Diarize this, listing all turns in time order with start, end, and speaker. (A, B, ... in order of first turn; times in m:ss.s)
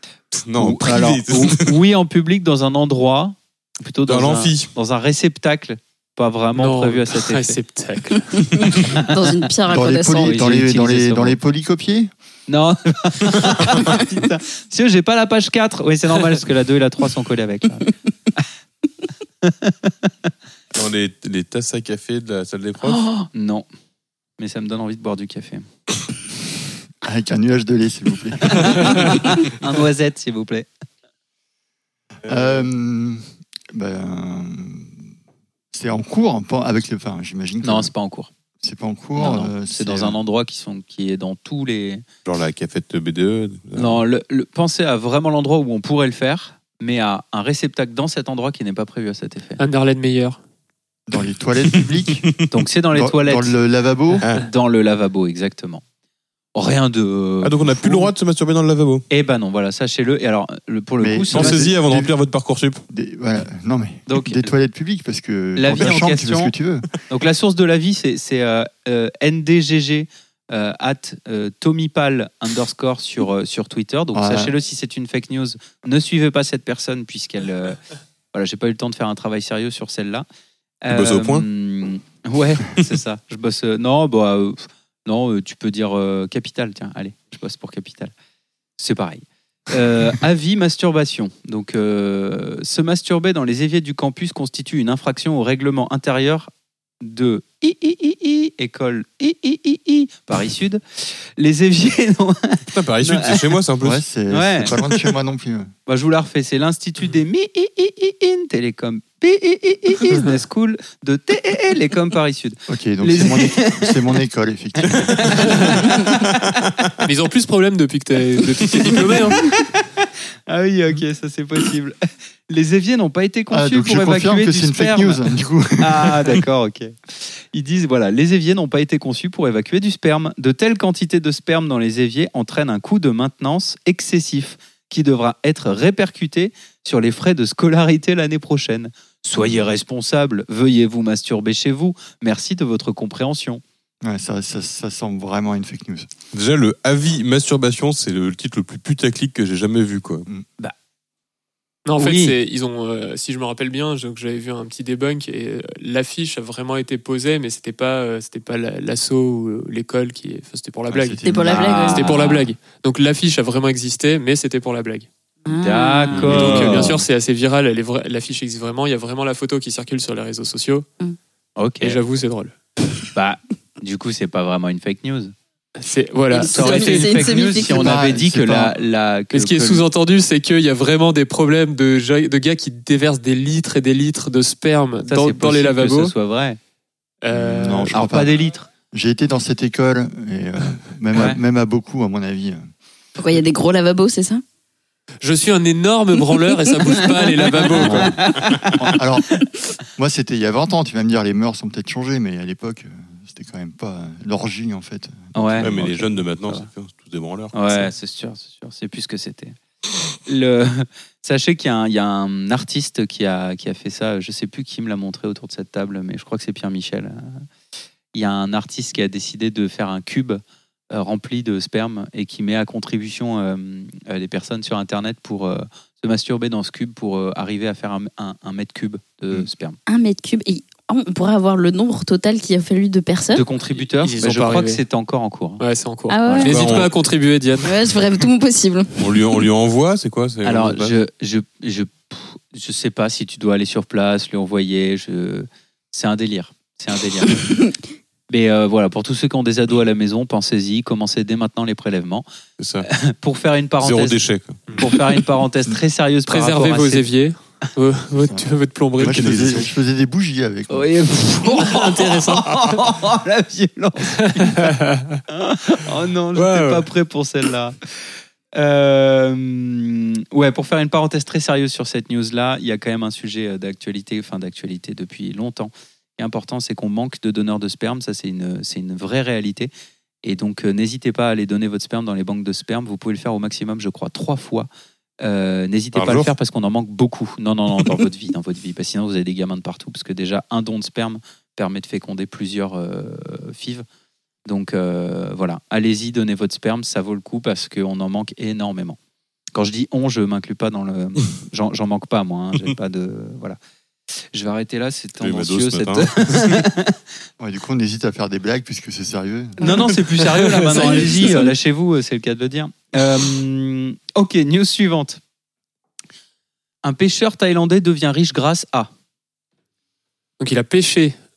0:00.3-0:01.8 A
0:00.5-0:07.6 B
0:04.1-0:04.7 A
0:06.6-0:08.5 C
0:08.3-0:10.3 D
0:08.9-0:09.4 B
0:09.7-0:12.1 E
0:10.2-0:11.4 B
0:12.5-0:17.9 B
0:19.4-0:20.1 B
0:20.7-0:23.0 A
0:22.8-0:23.7 B
0:24.4-0:25.7 B
0:27.0-0:29.2 E
0:28.5-0:30.7 B
0:32.2-0:35.0 E
0:35.7-0:37.9 E
0:37.6-0:38.3 B
0:38.6-0:40.2 E
0:39.2-0:42.0 B
0:42.2-0:44.0 A
0:43.7-0:49.6 B
0:49.6-0:50.4 C
0:51.1-0:52.3 E
0:52.5-0:53.6 B
0:52.9-0:54.2 E
0:54.2-0:54.5 A
0:54.3-0:55.8 B
0:56.6-0:58.1 B
0:57.4-0:59.0 A
0:59.1-1:01.7 B
1:01.0-1:02.1 E
1:01.3-1:02.8 A
1:02.9-1:06.9 E
1:04.1-1:04.5 B
1:05.6-1:06.5 B
1:07.1-1:17.8 B
1:14.1-1:14.5 E
1:18.3-1:20.3 B
1:20.8-1:28.1 B
1:20.9-1:21.5 A
1:28.8-1:36.5 B
1:37.0-1:43.6 B
1:42.7-1:44.0 A
1:43.8-1:45.7 E
1:44.3-1:44.8 B
1:45.9-1:54.0 B
1:52.7-1:55.6 E
1:54.9-1:56.7 B
1:55.4-1:55.8 C
1:57.0-1:59.5 C
1:59.0-1:59.8 B
2:00.5-2:02.0 B
2:02.5-2:05.2 B
2:03.5-2:06.4 E
2:05.8-2:23.6 B
2:24.0-2:26.1 E
2:26.3-2:30.3 A
2:31.9-2:41.2 C
2:32.0-2:32.4 B
2:40.9-2:42.0 E
2:41.2-2:42.3 D
2:41.5-2:42.5 B
2:41.9-2:45.1 C
2:45.5-2:46.3 D
2:45.6-2:47.0 B
2:46.2-2:46.9 A
2:46.3-2:50.9 C
2:51.6-2:52.0 B
2:51.8-2:52.6 C
2:53.1-2:55.3 B
2:55.8-2:57.3 C
2:56.3-2:58.0 D
2:56.4-2:59.8 B
2:57.5-2:58.8 E
2:59.3-3:06.1 C
3:05.1-3:06.6 B
3:07.2-3:07.9 C
3:07.3-3:08.4 E
3:07.9-3:08.7 B
3:08.9-3:12.7 E
3:11.1-3:11.4 B
3:13.2-3:14.4 D
3:15.2-3:18.1 C
3:16.9-3:17.7 D
3:17.8-3:19.3 E
3:17.8-3:18.8 A
3:20.0-3:26.1 E
3:25.4-3:25.7 B
3:25.6-3:27.6 A
3:27.5-3:29.6 B
3:30.2-3:37.4 B
3:38.1-3:49.8 B
3:49.9-3:53.4 D
3:53.3-3:55.6 B
3:54.0-3:54.8 C
3:55.6-3:57.8 C
3:56.1-3:56.5 D
3:56.2-3:56.5 B
3:56.5-3:57.0 A
3:57.6-3:59.1 D
3:59.0-4:01.0 A
4:00.4-4:07.4 B
4:08.3-4:12.3 B
4:12.6-4:12.9 A
4:12.8-4:14.2 B
4:13.8-4:15.0 A
4:14.8-4:17.1 B
4:16.3-4:19.6 C
4:19.0-4:21.2 E
4:19.0-4:19.6 A
4:20.7-4:24.8 B
4:21.6-4:22.6 C
4:24.2-4:25.2 C
4:25.3-4:27.8 B
4:26.4-4:26.8 C
4:28.6-4:39.7 B
4:40.2-4:44.7 B
4:45.2-4:53.9 B
4:45.9-4:46.3 A
4:54.5-4:59.0 B
4:59.6-5:03.6 B
5:04.3-5:07.0 B
5:05.2-5:06.6 A
5:07.4-5:09.7 E
5:09.6-5:15.2 B
5:10.2-5:11.4 C
5:10.7-5:11.5 D
5:16.8-5:18.9 B
5:20.4-5:21.2 C